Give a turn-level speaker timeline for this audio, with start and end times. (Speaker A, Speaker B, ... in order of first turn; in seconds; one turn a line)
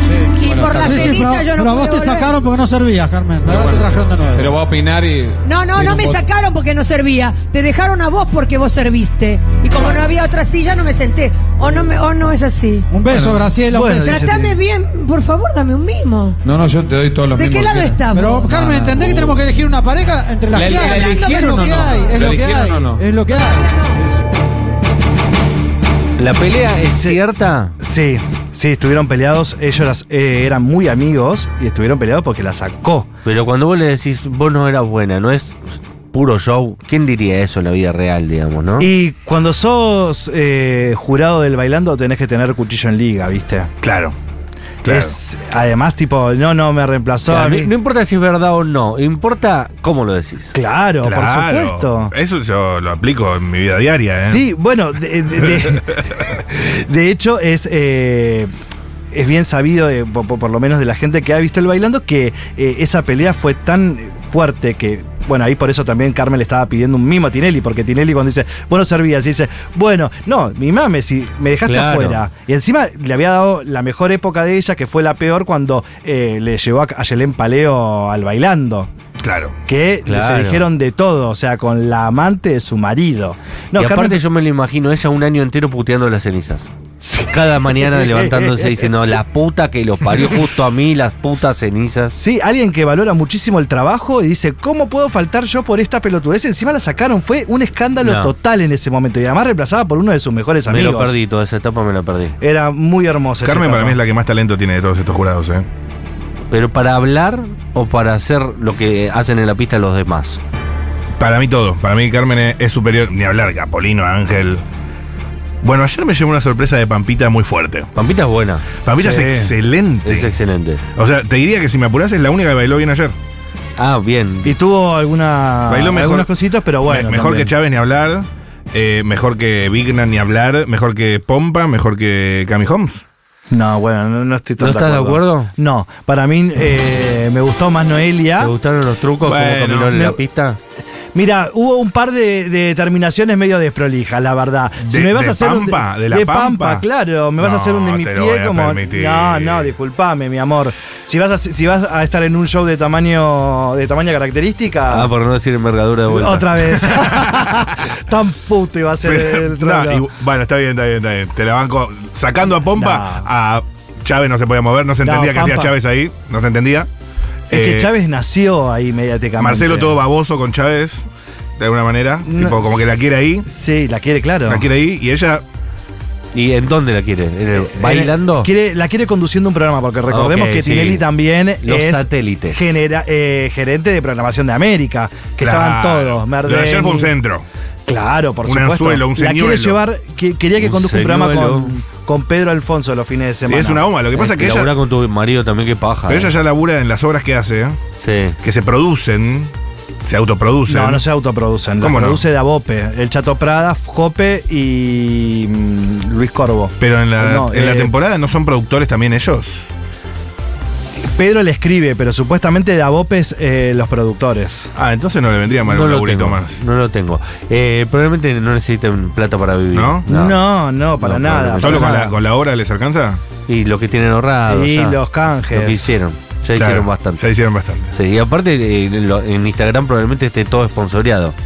Speaker A: 0.3-2.4
Speaker B: 0.4-1.2
Speaker C: 0.6-4.6
Speaker B: 3.5-6.2
Speaker A: 5.4-12.9
Speaker C: 12.9-14.3
Speaker B: 13.1-13.5
Speaker D: 13.7-14.6
Speaker A: 14.0-16.4
Speaker B: 16.4-19.4
Speaker A: 17.3-18.6
Speaker C: 18.1-23.7
Speaker B: 20.5-23.0
Speaker A: 20.6-22.2
Speaker A: 23.2-24.0
Speaker E: 26.2-27.8
Speaker D: 27.8-33.1
Speaker E: 33.2-38.9
Speaker D: 38.8-43.7
Speaker F: 43.8-44.1
Speaker F: 44.8-45.1
Speaker D: 44.8-47.7
Speaker E: 47.3-50.5
Speaker D: 50.5-52.1
Speaker F: 51.0-54.5
Speaker D: 54.2-58.5
Speaker D: 59.1-78.9
Speaker E: 71.6-72.2
Speaker F: 79.2-79.5
Speaker D: 79.7-84.2
Speaker E: 80.0-80.6
Speaker E: 83.8-86.7
Speaker D: 87.0-89.0
Speaker E: 87.3-92.2
Speaker D: 92.1-101.1
Speaker E: 98.0-98.3
Speaker E: 100.7-102.3
Speaker D: 102.4-104.0
Speaker F: 103.4-105.7
Speaker E: 106.5-110.4
Speaker F: 111.2-114.6
Speaker F: 115.6-117.9
Speaker E: 117.9-118.7
Speaker F: 118.8-120.3
Speaker D: 119.0-119.5
Speaker E: 120.0-120.8
Speaker F: 121.0-123.1
Speaker E: 123.8-124.5
Speaker D: 124.4-127.5
Speaker F: 125.7-126.3
Speaker F: 126.8-133.0
Speaker D: 133.5-138.5
Speaker E: 134.6-135.5
Speaker E: 138.4-140.6
Speaker F: 139.2-140.1
Speaker D: 139.9-140.2
Speaker D: 141.1-155.1
Speaker F: 144.8-146.8
Speaker F: 147.4-149.7
Speaker E: 154.9-156.6
Speaker D: 156.1-160.1
Speaker F: 156.9-157.6
Speaker F: 159.0-166.9
Speaker D: 162.7-163.3
Speaker D: 165.0-165.7
Speaker F: 167.5-167.9
Speaker D: 167.5-170.0
Speaker F: 169.4-171.0
Speaker F: 171.6-173.5
Speaker D: 172.2-172.8
Speaker D: 173.4-174.7
Speaker F: 174.5-175.4
Speaker E: 176.3-178.5
Speaker D: 177.5-187.1
Speaker E: 180.1-181.0
Speaker E: 181.6-182.7
Speaker F: 185.4-187.4
Speaker D: 187.9-193.8
Speaker F: 188.4-189.8
Speaker E: 190.6-191.7
Speaker F: 193.5-194.7
Speaker E: 194.1-196.3
Speaker F: 196.1-197.8
Speaker E: 198.0-198.4
Speaker F: 198.4-199.5
Speaker F: 200.0-201.0
Speaker D: 200.7-207.9
Speaker F: 201.8-202.2
Speaker F: 206.8-209.7
Speaker D: 211.1-214.7
Speaker F: 214.8-216.6
Speaker E: 215.7-220.4
Speaker F: 219.7-220.0
Speaker D: 220.1-222.1
Speaker E: 221.0-222.0
Speaker F: 221.6-223.2
Speaker E: 223.5-225.0
Speaker D: 224.5-225.9
Speaker E: 225.5-227.2
Speaker F: 226.6-227.9
Speaker E: 227.9-231.3